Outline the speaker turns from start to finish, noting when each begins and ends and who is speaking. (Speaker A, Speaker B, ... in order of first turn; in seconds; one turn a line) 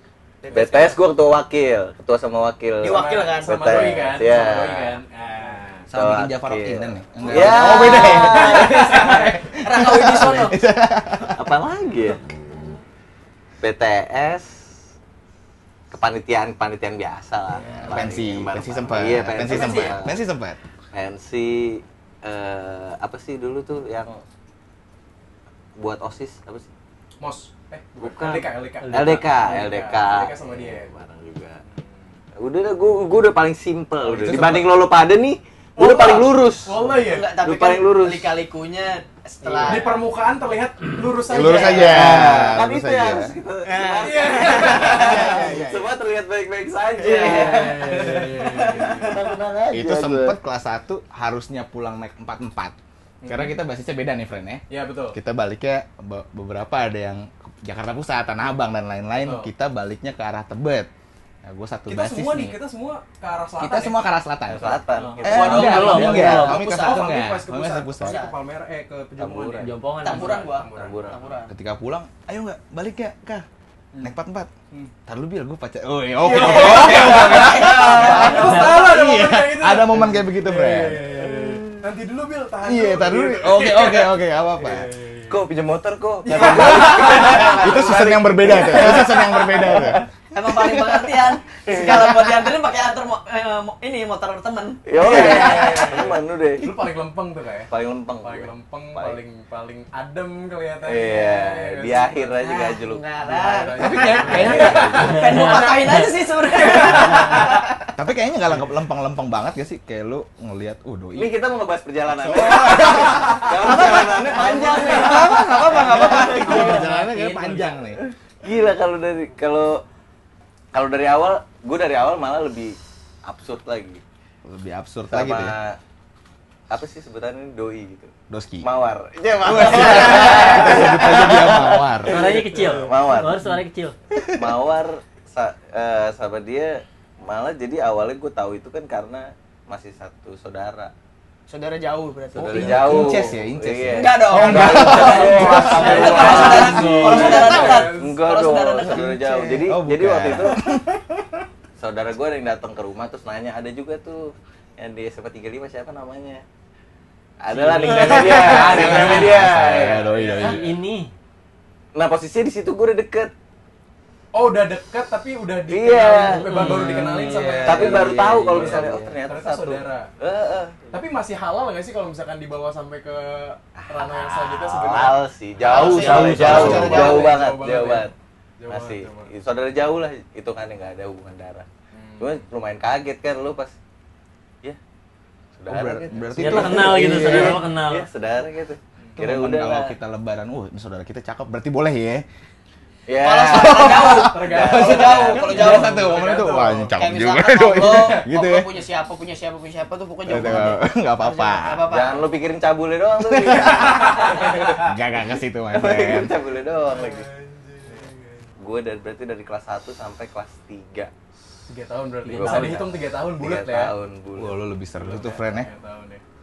Speaker A: 0.4-0.9
Speaker B: 0.5-0.9
Speaker C: 0.5-5.0
Speaker B: 2.8-5.9
Speaker A: 2.8-4.0
Speaker D: 5.9-9.0
Speaker C: 5.9-9.0
Speaker B: 7.3-9.6
Speaker A: 7.3-10.6
Speaker D: 9.6-11.5
Speaker C: 11.3-12.2
Speaker C: 13.6-14.7
Speaker C: 15.9-20.2
Speaker A: 17.6-18.1
Speaker D: 17.9-20.6
Speaker A: 19.4-20.0
Speaker C: 20.9-24.2
Speaker C: 25.8-26.7
Speaker B: 27.2-30.9
Speaker C: 28.0-31.6
Speaker E: 28.8-29.2
Speaker B: 31.6-32.2
Speaker C: 32.4-36.8
Speaker B: 34.0-34.7
Speaker B: 35.8-37.4
Speaker A: 36.9-40.0
Speaker C: 37.3-38.3
Speaker B: 39.5-42.5
Speaker D: 41.3-43.4
Speaker C: 41.4-50.4
Speaker A: 41.5-42.0
Speaker A: 43.6-45.5
Speaker B: 44.0-45.3
Speaker D: 44.8-46.0
Speaker A: 47.0-49.4
Speaker B: 47.0-49.2
Speaker D: 49.7-52.8
Speaker B: 53.2-53.6
Speaker D: 53.3-60.9
Speaker B: 54.7-55.2
Speaker B: 59.2-59.5
Speaker D: 61.4-62.6
Speaker B: 61.9-64.0
Speaker D: 63.6-68.2
Speaker C: 64.5-65.8
Speaker B: 64.9-71.3
Speaker A: 65.2-67.2
Speaker E: 65.5-66.6
Speaker A: 68.0-68.4
Speaker C: 69.2-69.7
Speaker E: 69.6-70.4
Speaker A: 70.0-71.5
Speaker C: 70.7-71.2
Speaker D: 71.5-73.5
Speaker D: 74.0-74.5
Speaker D: 75.1-81.8
Speaker B: 76.2-85.4
Speaker C: 76.4-78.5
Speaker A: 76.6-78.8
Speaker D: 82.6-84.9
Speaker C: 85.3-90.0
Speaker B: 86.2-87.9
Speaker D: 86.3-90.1
Speaker A: 90.3-96.0
Speaker C: 91.7-92.2
Speaker C: 94.9-96.9
Speaker B: 95.0-102.4
Speaker C: 97.7-99.2
Speaker C: 100.8-103.0
Speaker A: 102.4-107.9
Speaker B: 103.2-107.6
Speaker D: 103.8-104.9
Speaker C: 104.1-105.3
Speaker E: 105.3-105.8
Speaker D: 108.0-111.4
Speaker C: 111.2-116.4
Speaker D: 112.1-114.1
Speaker B: 112.5-115.2
Speaker A: 112.7-116.9
Speaker D: 114.9-118.0
Speaker E: 116.3-117.8
Speaker C: 118.4-119.8
Speaker C: 120.7-124.0
Speaker D: 124.5-125.5
Speaker C: 125.1-125.8
Speaker C: 126.7-133.4
Speaker D: 128.3-128.7
Speaker D: 129.4-132.2
Speaker A: 130.2-130.8
Speaker E: 132.1-133.9
Speaker D: 134.2-134.6
Speaker C: 134.4-140.9
Speaker A: 141.5-143.3
Speaker D: 142.3-147.5
Speaker C: 142.3-150.7
Speaker A: 143.9-149.5
Speaker B: 144.4-148.2
Speaker E: 145.7-147.7
Speaker D: 148.8-151.4
Speaker C: 151.8-156.4
Speaker C: 157.4-160.1
Speaker E: 157.5-159.3
Speaker B: 157.8-160.7
Speaker D: 158.0-160.6
Speaker E: 160.4-161.1
Speaker C: 161.9-163.3
Speaker B: 164.3-170.1
Speaker C: 165.7-166.8
Speaker E: 166.3-167.2
Speaker D: 166.6-169.0
Speaker C: 167.6-170.9
Speaker B: 170.9-179.3
Speaker C: 173.8-178.1
Speaker A: 175.6-177.4
Speaker E: 175.8-177.2
Speaker D: 176.3-177.1
Speaker C: 178.7-181.7
Speaker B: 181.9-182.5
Speaker C: 182.2-183.8
Speaker C: 185.6-189.9
Speaker D: 185.7-187.6
Speaker E: 186.4-188.1
Speaker D: 189.2-192.2
Speaker C: 193.1-195.5
Speaker A: 193.2-196.1
Speaker D: 193.6-198.7
Speaker B: 193.9-197.0
Speaker A: 196.9-202.3
Speaker B: 197.8-198.3
Speaker D: 200.3-201.9
Speaker C: 201.9-204.9
Speaker D: 203.2-206.3
Speaker B: 203.7-204.8
Speaker C: 205.7-207.3
Speaker B: 206.8-208.5
Speaker C: 208.6-211.1
Speaker B: 211.7-213.9
Speaker E: 212.2-212.9
Speaker C: 212.3-214.6
Speaker D: 214.3-215.7
Speaker B: 215.0-216.2